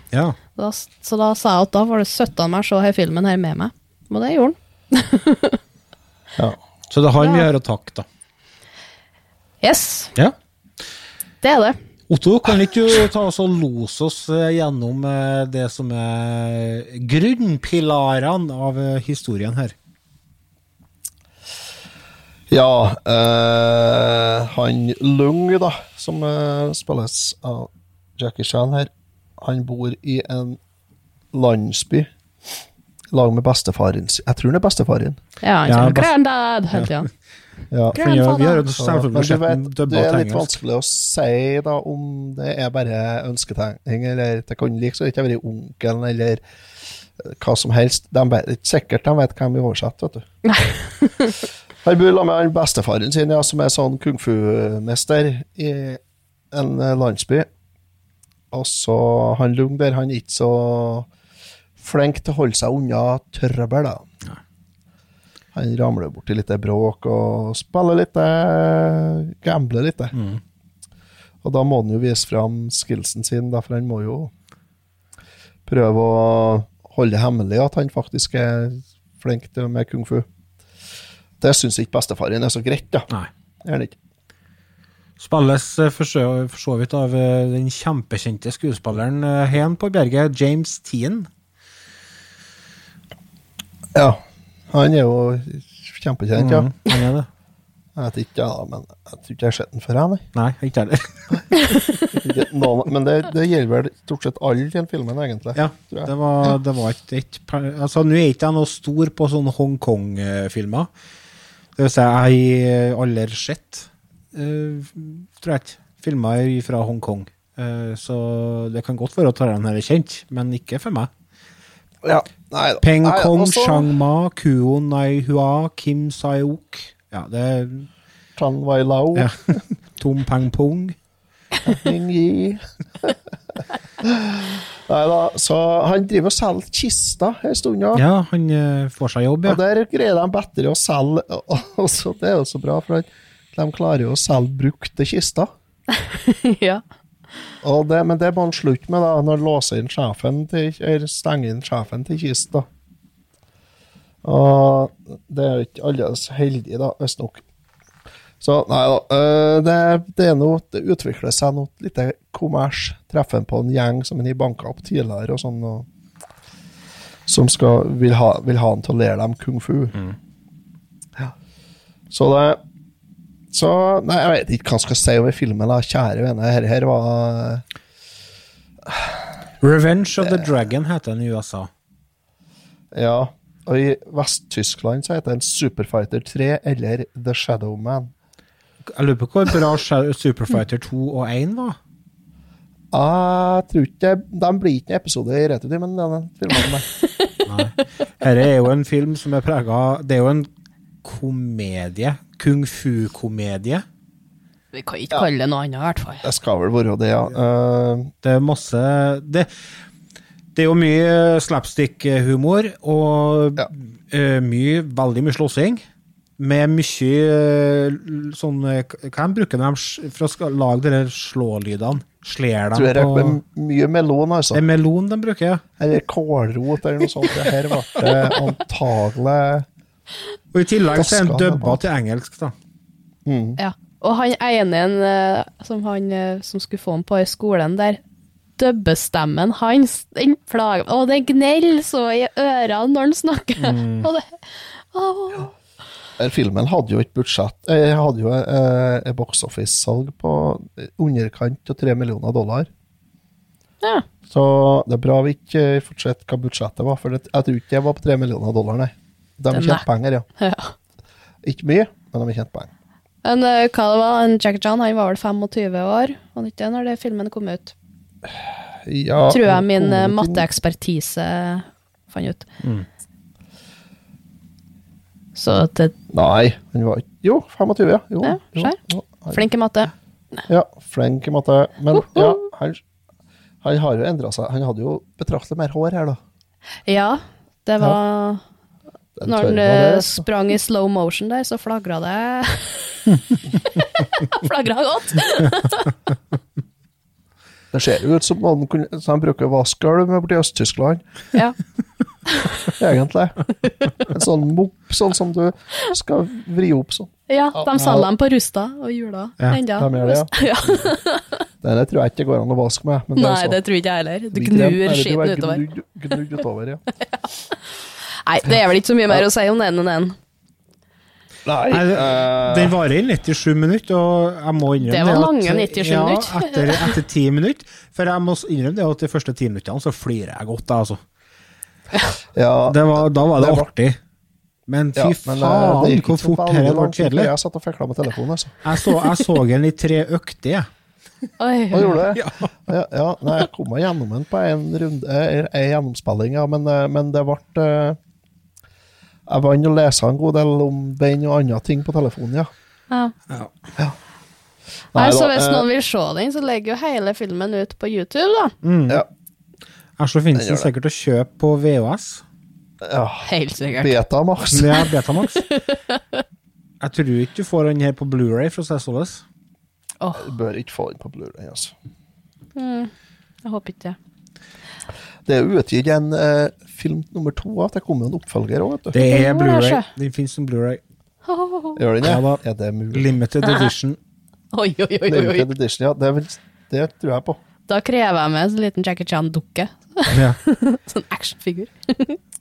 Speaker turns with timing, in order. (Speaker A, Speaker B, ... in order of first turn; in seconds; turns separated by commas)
Speaker A: 0.6-5.6, Speaker B: 6.9-8.1, Speaker A: 7.2-7.5, Speaker A: 9.6-10.1, Speaker A: 11.4-11.8, Speaker B: 12.1-19.7, Speaker C: 22.5-30.6, Speaker C: 31.3-32.1, Speaker C: 33.1-35.2, Speaker A: 35.4-37.1, Speaker B: 35.7-36.1, Speaker B: 36.7-37.0, Speaker C: 37.7-38.0, Speaker B: 37.9-40.6, Speaker A: 37.9-38.6, Speaker C: 38.8-46.4, Speaker C: 47.2-50.2, Speaker A: 50.5-51.4, Speaker C: 51.8-56.0, Speaker C: 56.5-57.5, Speaker C: 58.5-61.1, Speaker C: 61.8-64.0, Speaker C: 65.5-70.1, Speaker B: 70.1-70.4, Speaker C: 71.4-74.3, Speaker C: 75.7-80.2, Speaker C: 81.4-83.1, Speaker C: 83.6-83.9, Speaker B: 85.2-91.3, Speaker C: 93.9-96.7, Speaker B: 96.3-97.3, Speaker C: 98.0-100.2, Speaker B: 100.3-101.5, Speaker C: 102.1-106.1, Speaker B: 105.5-110.9, Speaker B: 111.8-121.1, Speaker C: 122.0-123.9, Speaker B: 122.8-127.9, Speaker C: 128.3-129.6, Speaker B: 129.1-130.9, Speaker C: 131.7-133.1, Speaker C: 134.0-138.0, Speaker B: 137.9-139.6, Speaker C: 139.4-145.5, Speaker A: 145.9-146.8, Speaker C: 147.6-152.7, Speaker C: 154.2-157.4, Speaker C: 158.4-165.9, Speaker C: 167.3-169.9, Speaker C: 172.1-172.6, Speaker C: 173.5-177.6, Speaker C: 178.8-179.2, Speaker B: 179.6-181.7, Speaker C: 180.2-180.5, Speaker C: 182.9-188.1, Speaker B: 188.9-191.8, Speaker C: 192.9-196.8, Speaker A: 197.0-197.4, Speaker B: 197.4-200.5, Speaker B: 201.0-203.8, Speaker A: 204.7-206.2, Speaker C: 206.2-208.1, Speaker B: 208.2-209.5, Speaker B: 210.5-215.8, Speaker B: 216.4-223.4, Speaker C: 222.7-224.6, Speaker B: 224.5-225.6, Speaker C: 225.8-229.7, Speaker B: 230.5-232.5, Speaker C: 230.9-231.8, Speaker C: 233.2-233.6, Speaker A: 233.6-238.0, Speaker A: 238.6-245.5, Speaker B: 243.6-244.1, Speaker C: 246.2-252.7, Speaker C: 254.3-260.2, Speaker A: 259.5-259.8, Speaker A: 260.4-260.7, Speaker C: 261.4-262.7, Speaker A: 263.2-267.7, Speaker C: 268.3-270.4, Speaker A: 269.3-272.4, Speaker A: 275.4-275.9, Speaker C: 276.1-279.4, Speaker A: 278.2-278.8, Speaker A: 279.3-280.4, Speaker C: 280.5-282.8, Speaker A: 281.9-282.4, Speaker C: 283.6-286.2, Speaker A: 286.9-288.4, Speaker C: 289.2-290.2, Speaker A: 289.3-293.0, Speaker A: 293.5-295.9, Speaker C: 297.7-301.0, Speaker A: 302.3-302.5, Speaker C: 302.8-303.4, Speaker C: 304.1-308.1, Speaker A: 307.3-311.4, Speaker C: 309.8-310.9, Speaker C: 311.6-313.6, Speaker A: 313.1-315.6, Speaker C: 314.3-316.8, Speaker A: 316.9-317.6, Speaker A: 318.2-320.1, Speaker C: 321.4-322.8, Speaker B: 321.7-331.0, Speaker A: 324.8-326.9, Speaker C: 332.3-333.7, Speaker B: 332.7-334.0, Speaker B: 334.7-337.3, Speaker C: 334.9-338.6, Speaker B: 338.6-340.7, Speaker A: 341.4-342.0, Speaker C: 341.7-348.0, Speaker B: 342.1-342.5, Speaker C: 349.3-352.5, Speaker C: 354.9-355.6, Speaker A: 355.0-358.5, Speaker B: 358.6-359.0, Speaker B: 360.0-362.2, Speaker C: 360.3-360.7, Speaker C: 362.8-363.3, Speaker A: 363.2-364.0, Speaker C: 363.8-364.7, Speaker B: 364.5-365.4, Speaker A: 364.9-366.2, Speaker B: 366.8-369.2, Speaker A: 370.0-370.3, Speaker C: 370.1-371.7, Speaker A: 372.6-372.9, Speaker A: 373.4-374.0, Speaker C: 375.2-378.9, Speaker B: 378.9-380.8, Speaker A: 379.0-379.8, Speaker A: 381.2-381.8, Speaker C: 381.8-383.1, Speaker B: 382.0-382.4, Speaker B: 382.9-384.0, Speaker A: 384.5-385.5, Speaker C: 385.1-387.4, Speaker A: 387.7-392.2, Speaker B: 390.1-390.4